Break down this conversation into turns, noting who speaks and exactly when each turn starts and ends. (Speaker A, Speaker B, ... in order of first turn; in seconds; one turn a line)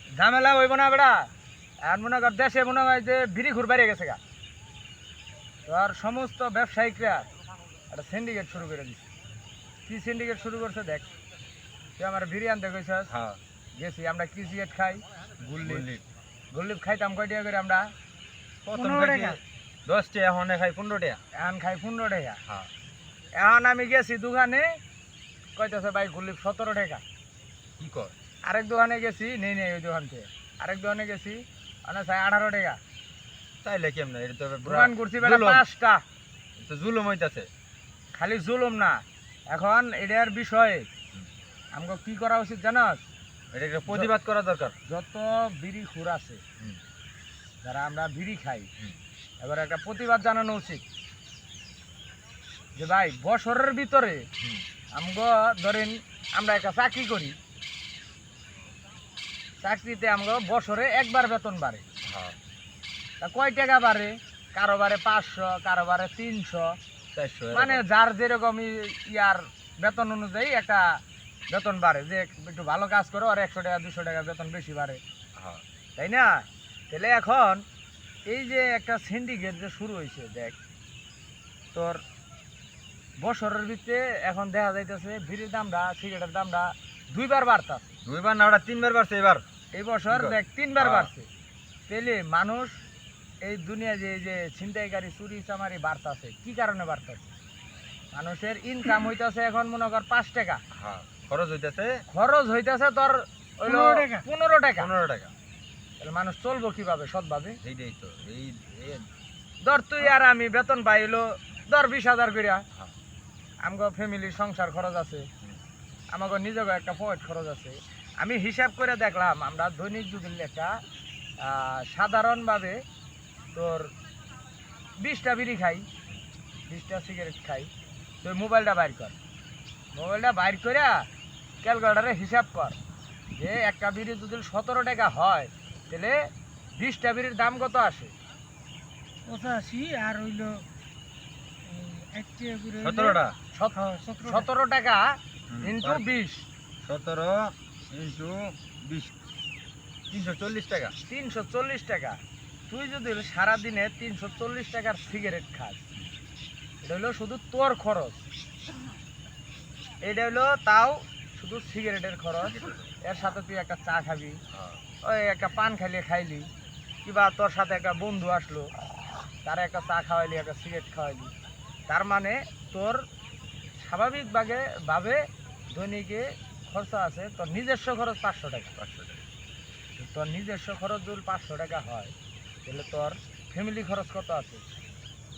Speaker A: 0.2-1.3
Speaker A: 1.8-4.2
Speaker A: 5.7-7.3
Speaker A: 7.9-9.1
Speaker A: 9.9-11.1
Speaker A: 12.0-13.1
Speaker B: 13.1-13.4
Speaker A: 13.8-15.9
Speaker B: 15.6-16.0
Speaker A: 16.5-17.9
Speaker B: 18.6-21.2
Speaker C: 18.7-19.4
Speaker A: 21.4-22.4
Speaker A: 23.4-24.7
Speaker A: 25.6-27.0
Speaker B: 27.8-28.1
Speaker A: 28.4-32.8
Speaker B: 33.6-35.6
Speaker A: 34.6-36.0
Speaker B: 36.6-37.5
Speaker A: 38.1-40.9
Speaker A: 41.7-43.0
Speaker B: 43.5-44.7
Speaker A: 44.9-46.4
Speaker A: 47.6-48.7
Speaker A: 49.4-50.8
Speaker A: 52.8-54.3
Speaker A: 54.9-57.4
Speaker A: 59.6-61.8
Speaker B: 62.0-62.4
Speaker A: 63.2-66.8
Speaker B: 67.2-67.8
Speaker A: 67.5-71.0
Speaker A: 71.5-75.0
Speaker B: 75.4-75.6
Speaker A: 76.0-77.7
Speaker A: 78.3-80.6
Speaker A: 81.7-82.0
Speaker A: 83.2-87.9
Speaker B: 88.0-89.4
Speaker A: 89.7-91.3
Speaker B: 90.1-91.1
Speaker A: 91.9-92.8
Speaker A: 93.4-97.2
Speaker A: 98.1-100.6
Speaker B: 100.7-102.0
Speaker A: 102.1-104.9
Speaker C: 103.7-104.3
Speaker B: 104.8-105.3
Speaker A: 106.0-107.6
Speaker B: 107.6-109.1
Speaker A: 109.6-112.7
Speaker A: 113.6-115.3
Speaker A: 116.1-120.8
Speaker A: 121.4-122.8
Speaker A: 123.5-123.9
Speaker A: 125.0-125.9
Speaker A: 126.7-127.7
Speaker A: 128.2-129.2
Speaker A: 129.9-131.1
Speaker A: 131.6-132.8
Speaker A: 133.4-136.2
Speaker A: 136.8-138.1
Speaker C: 139.3-140.7
Speaker C: 141.6-143.2
Speaker B: 142.8-143.4
Speaker A: 143.5-146.5
Speaker C: 143.7-144.5
Speaker B: 145.5-146.0
Speaker B: 146.8-149.1
Speaker B: 150.1-150.9
Speaker A: 151.1-152.2
Speaker A: 152.7-155.8
Speaker A: 156.8-158.2
Speaker A: 160.0-164.4
Speaker B: 162.4-162.9
Speaker B: 164.5-164.8
Speaker A: 165.0-166.5
Speaker A: 167.1-168.7
Speaker A: 169.4-171.3
Speaker A: 171.9-173.1
Speaker A: 173.8-178.8
Speaker B: 178.8-179.2
Speaker A: 180.0-182.1
Speaker A: 182.7-184.7